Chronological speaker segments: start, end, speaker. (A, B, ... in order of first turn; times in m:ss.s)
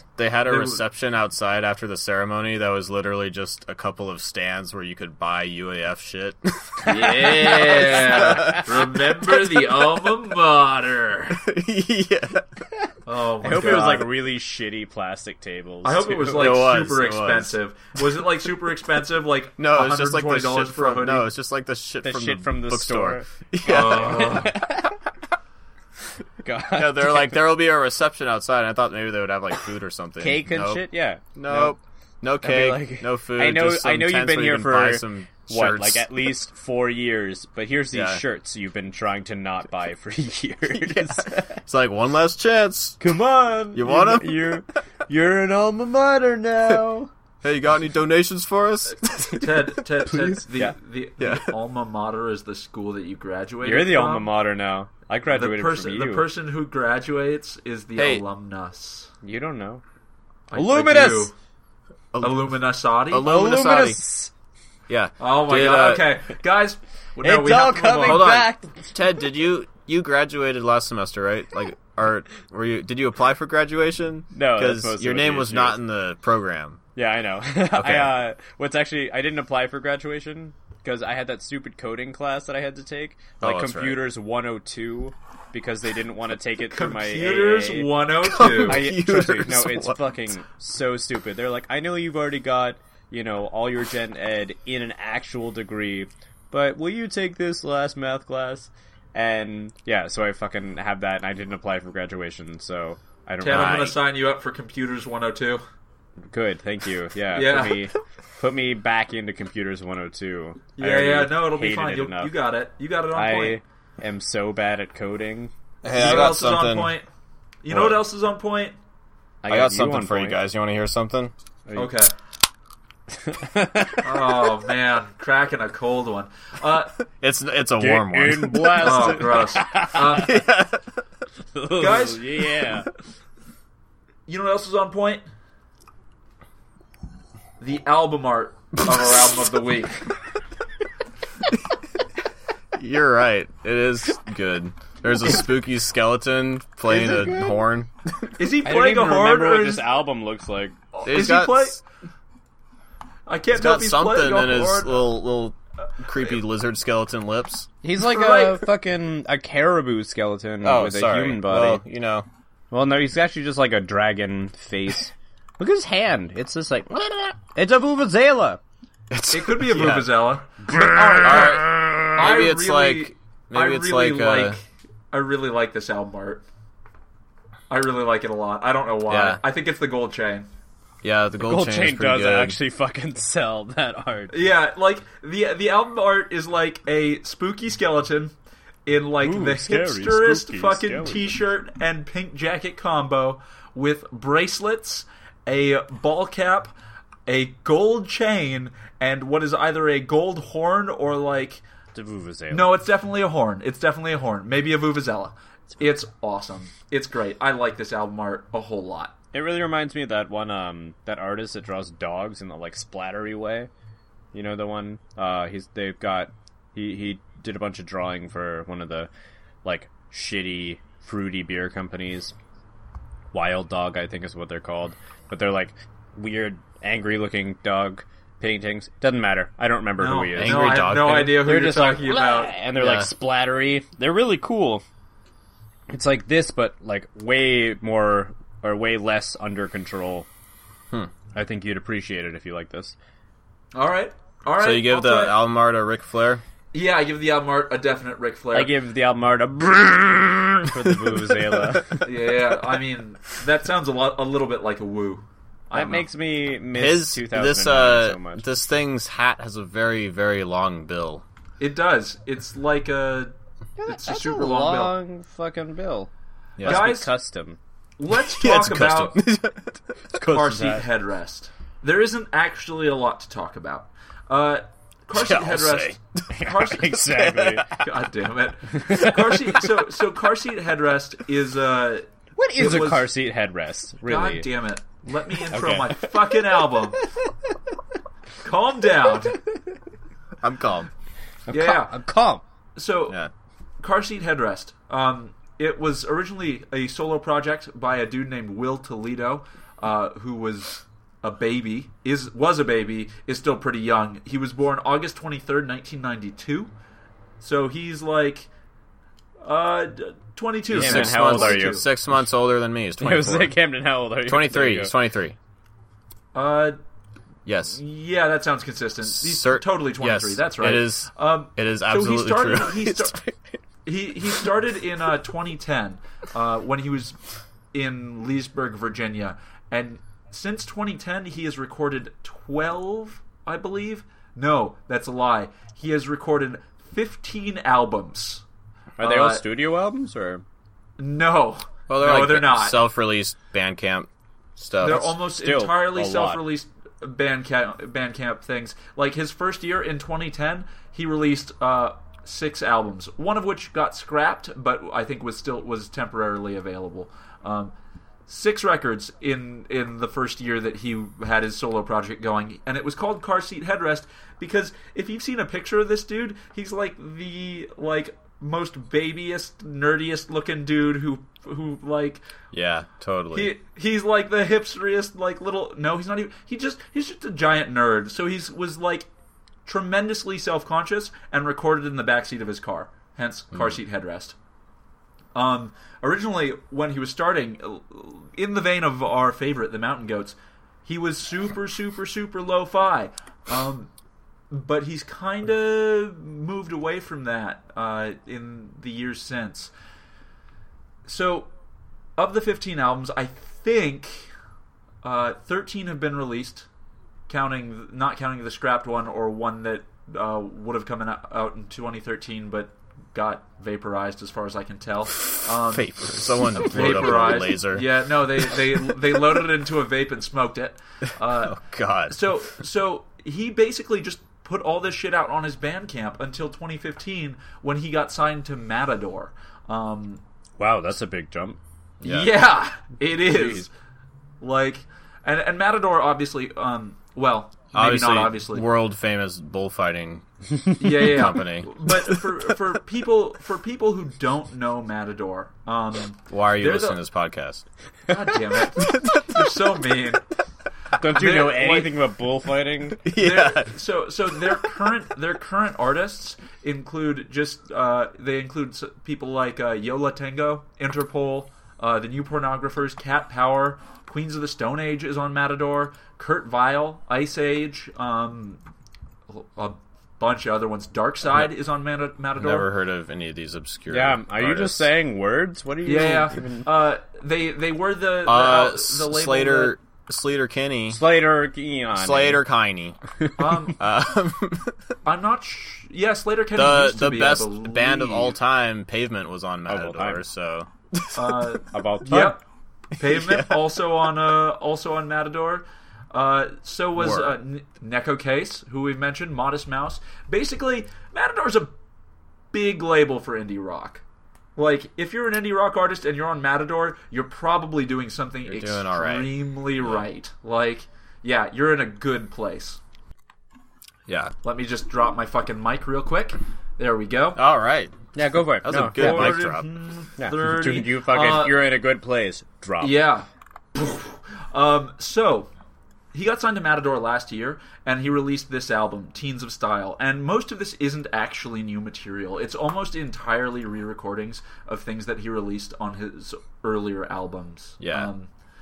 0:00.2-0:09.6 A
0:00.5-0:00.8 B
0:06.9-0:11.4 B
0:07.0-0:08.6 C
0:11.3-0:12.7 A
0:13.1-0:14.1 B
0:13.4-0:16.5 C
0:15.8-0:21.3 B
0:16.3-0:18.2 A
0:19.6-0:24.5 A
0:22.0-0:25.0 C
0:23.6-0:24.5 B
0:26.4-0:27.4 C
0:26.7-0:30.8 A
0:30.2-0:31.8 C
0:31.4-0:36.1 A
0:32.4-0:41.6 C
0:37.9-0:38.2 A
0:40.7-0:43.0 A
0:43.0-0:47.1 C
0:43.7-0:44.6 A
0:47.4-0:50.4 A
0:49.2-0:54.3 B
0:50.1-0:50.8 C
0:51.2-0:51.6 A
0:53.6-0:56.3 C
0:55.3-0:59.1 B
0:58.0-0:58.2 A
0:59.2-0:59.8 C
1:00.5-1:01.3 B
1:00.5-1:01.3 C
1:02.1-1:04.0 A
1:02.2-1:03.3 B
1:03.2-1:04.3 C
1:04.9-1:06.2 A
1:05.2-1:08.4 B
1:07.2-1:08.9 C
1:08.0-1:16.8 A
1:14.3-1:15.8 C
1:17.0-1:27.9 C
1:17.8-1:18.2 A
1:23.4-1:24.0 A
1:26.7-1:28.9 B
1:28.2-1:30.3 A
1:28.6-1:44.0 C
1:43.4-1:45.6 B
1:43.5-1:43.9 A
1:46.3-1:52.3 C
1:47.3-1:47.9 B
1:50.8-1:53.6 B
1:53.1-1:55.5 C
1:55.8-1:56.9 A
1:55.9-1:57.1 B
1:57.6-1:58.8 B
1:57.7-1:58.0 A
1:59.4-2:00.4 C
1:59.5-2:01.3 A
2:01.7-2:01.9 C
2:01.8-2:02.1 B
2:03.1-2:04.3 C
2:04.0-2:07.0 B
2:07.2-2:09.2 A
2:07.8-2:10.3 C
2:08.8-2:10.4 B
2:10.1-2:10.9 A
2:11.5-2:12.9 C
2:11.8-2:12.4 B
2:14.3-2:15.2 B
2:17.6-2:20.1 B
2:22.7-2:28.3 A
2:26.9-2:27.5 C
2:28.4-2:29.9 B
2:28.6-2:30.8 C
2:30.9-2:31.8 B
2:31.0-2:31.8 A
2:33.3-2:35.2 B
2:33.5-2:37.7 A
2:36.1-2:36.4 B
2:37.8-2:41.8 C
2:38.0-2:38.7 B
2:40.6-2:42.3 A
2:42.7-2:48.6 C
2:49.1-2:50.2 A
2:49.3-2:56.4 B
2:51.1-2:54.6 A
2:57.7-3:00.5 B
2:59.1-2:59.4 A
3:01.0-3:02.6 A
3:01.4-3:04.4 C
3:04.3-3:08.3 B
3:08.9-3:16.7 B
3:09.2-3:11.4 C
3:17.3-3:21.6 B
3:21.9-3:22.7 C
3:22.5-3:29.1 B
3:29.3-3:33.7 C
3:34.3-3:39.1 C
3:39.6-3:42.4 C
3:43.3-3:54.8 C
3:50.0-3:52.6 B
3:50.4-3:51.4 A
3:52.8-3:53.1 A
3:55.9-4:00.3 C
4:01.4-4:03.0 C
4:03.7-4:05.4 B
4:04.6-4:06.4 A
4:06.7-4:08.7 B
4:08.5-4:12.1 C
4:10.9-4:11.8 A
4:12.0-4:16.0 B
4:15.7-4:18.4 C
4:16.7-4:21.2 A
4:21.6-4:23.3 B
4:23.8-4:26.1 C
4:23.9-4:25.0 B
4:26.6-4:26.9 A
4:26.6-4:27.1 B
4:26.6-4:27.6 C
4:28.0-4:29.2 B
4:28.1-4:30.0 A
4:30.1-4:30.9 C
4:30.2-4:37.0 B
4:35.1-4:36.5 A
4:36.3-4:37.6 C
4:37.1-4:37.8 A
4:37.6-4:43.1 B
4:38.7-4:39.5 C
4:42.4-4:44.5 C
4:44.0-4:47.0 B
4:45.5-4:47.3 C
4:48.4-4:49.4 B
4:50.4-4:50.9 A
4:51.5-4:52.4 C
4:51.5-4:52.0 B
4:52.8-4:53.2 B
4:53.8-5:06.7 B
5:07.4-5:08.5 B
5:09.4-5:11.9 B
5:10.7-5:13.6 A
5:10.7-5:11.8 C
5:13.0-5:14.9 C
5:14.2-5:15.4 A
5:16.4-5:16.8 B
5:17.5-5:17.8 A
5:17.8-5:23.2 B
5:19.0-5:23.6 A
5:23.9-5:27.2 B
5:27.7-5:38.4 B
5:39.0-5:40.4 C
5:39.0-5:39.4 B
5:41.0-5:42.8 B
5:41.9-5:45.2 A
5:44.8-5:57.7 B
5:44.9-5:46.4 C
5:58.3-6:12.2 B
6:12.5-6:13.5 A
6:13.3-6:19.1 B
6:19.7-6:24.4 B
6:25.4-6:33.9 B
6:34.5-6:39.7 B
6:41.1-6:41.5 B
6:42.2-6:44.3 B
6:45.0-6:46.7 B
6:47.3-7:01.6 B
6:55.6-6:58.9 A
7:01.4-7:02.3 A
7:02.1-7:10.2 B
7:10.6-7:11.6 C
7:12.0-7:12.3 A
7:12.0-7:13.7 B
7:13.3-7:13.6 C
7:14.4-7:18.6 B
7:17.7-7:22.3 A
7:20.8-7:27.0 B
7:26.3-7:27.6 A
7:28.1-7:30.2 B
7:28.8-7:29.5 A
7:31.0-7:33.0 C
7:31.1-7:32.0 B
7:33.0-7:33.8 A
7:33.1-7:48.6 B
7:49.3-7:52.7 B
7:52.4-7:54.9 A
7:53.9-7:56.7 C
7:55.8-7:59.8 B
7:58.2-8:01.0 A
8:00.9-8:02.4 C
8:02.0-8:03.0 A
8:03.4-8:03.8 B
8:03.8-8:04.8 A
8:05.0-8:08.4 B
8:06.6-8:11.6 A
8:09.7-8:10.2 C
8:11.2-8:12.4 B
8:11.7-8:12.4 C
8:13.0-8:21.7 B
8:13.0-8:13.7 A
8:17.0-8:17.4 A
8:22.5-8:24.0 B
8:24.6-8:32.8 B
8:28.4-8:30.0 A
8:34.1-8:34.3 A
8:34.4-8:37.4 B
8:37.4-8:39.7 A
8:38.2-8:39.4 C
8:38.9-8:41.6 B
8:40.2-8:43.0 C
8:42.8-8:45.5 B
8:46.1-8:58.3 B
8:57.8-8:58.1 A